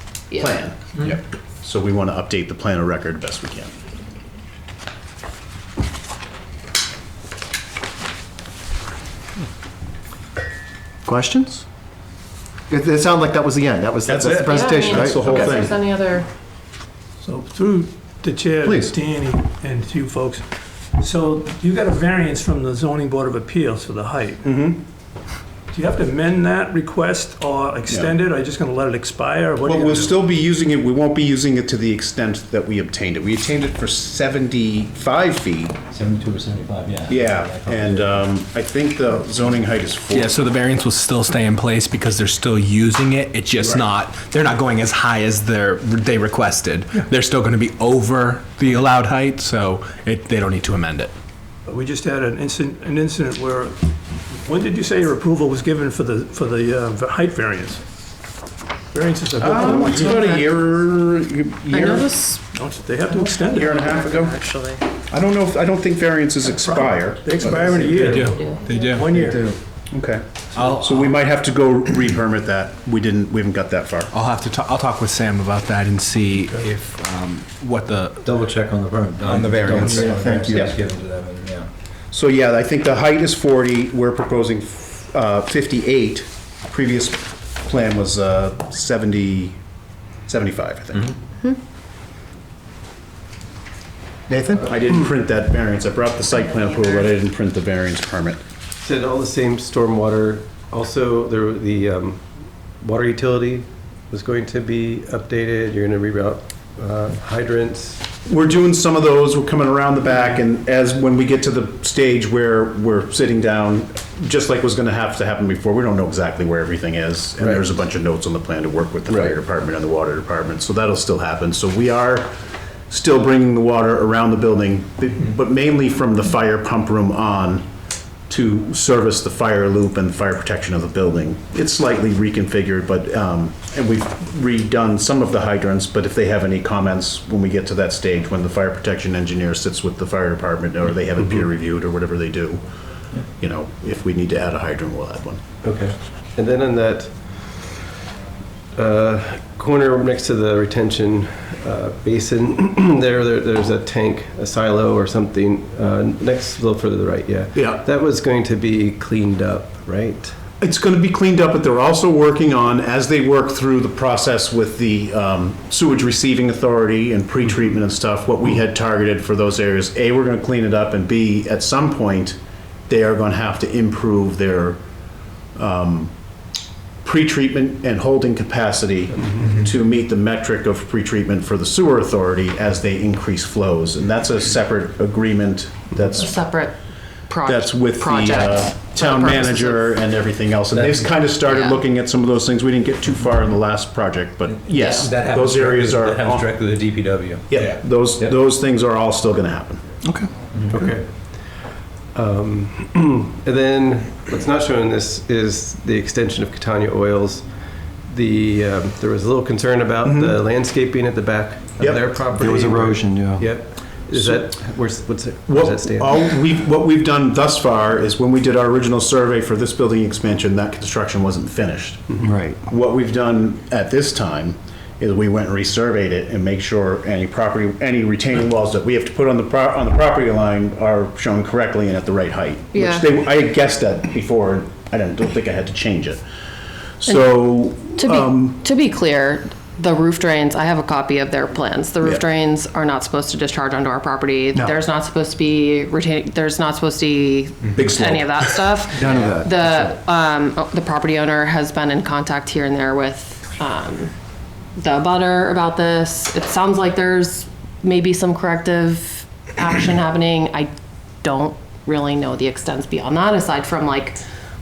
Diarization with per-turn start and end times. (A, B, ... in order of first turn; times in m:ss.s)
0:00.3-0:03.7 A
0:11.0-0:11.6 B
0:12.7-0:15.7 B
0:14.1-0:15.7 A
0:14.4-0:16.3 C
0:17.2-0:24.4 D
0:18.6-0:18.9 B
0:24.4-0:24.8 A
0:25.7-0:30.2 D
0:27.9-0:28.1 A
0:29.6-0:35.8 A
0:35.9-0:38.2 E
0:37.1-0:40.4 A
0:40.1-0:51.1 F
0:51.6-0:53.8 D
0:54.3-0:57.8 D
0:58.9-1:00.3 D
0:59.4-1:02.1 A
0:59.5-1:00.5 C
1:01.7-1:04.8 C
1:02.5-1:03.8 D
1:03.5-1:04.4 A
1:05.1-1:08.0 A
1:06.5-1:09.5 D
1:08.0-1:09.2 F
1:08.1-1:08.9 C
1:09.2-1:09.6 E
1:09.9-1:14.1 A
1:10.5-1:11.1 F
1:14.1-1:18.5 F
1:18.2-1:21.7 E
1:19.2-1:20.5 F
1:19.8-1:20.8 A
1:20.2-1:20.6 B
1:22.1-1:29.6 A
1:30.3-1:31.2 A
1:34.3-1:34.9 B
1:34.6-1:38.4 A
1:36.5-1:37.1 C
1:38.8-1:48.0 G
1:48.2-2:02.3 A
1:57.4-1:57.7 G
1:59.1-1:59.4 G
2:02.9-2:07.6 A
2:08.3-2:22.6 A
2:23.3-2:25.4 A
2:25.6-2:27.8 G
2:28.7-2:40.4 G
2:37.5-2:37.8 A
2:40.6-2:54.8 A
2:55.5-2:56.1 A
2:57.0-3:06.3 A
3:06.1-3:06.7 C
3:07.3-3:10.0 C
3:07.4-3:16.6 A
3:10.7-3:11.1 E
3:11.4-3:11.8 C
3:14.4-3:18.3 E
3:17.5-3:19.8 A
3:20.0-3:20.3 B
3:20.5-3:20.9 E
3:20.7-3:36.2 G
3:30.0-3:30.4 A
3:31.8-3:32.1 A
3:32.3-3:33.5 B
3:34.1-3:34.4 A
3:35.5-3:42.1 A
3:42.2-3:42.6 B
3:42.7-3:56.2 A
3:52.7-3:53.0 C
3:57.0-3:58.6 A
3:58.0-4:14.1 C
4:07.7-4:08.7 A
4:09.0-4:09.9 B
4:14.8-4:20.7 C
4:21.2-4:24.2 C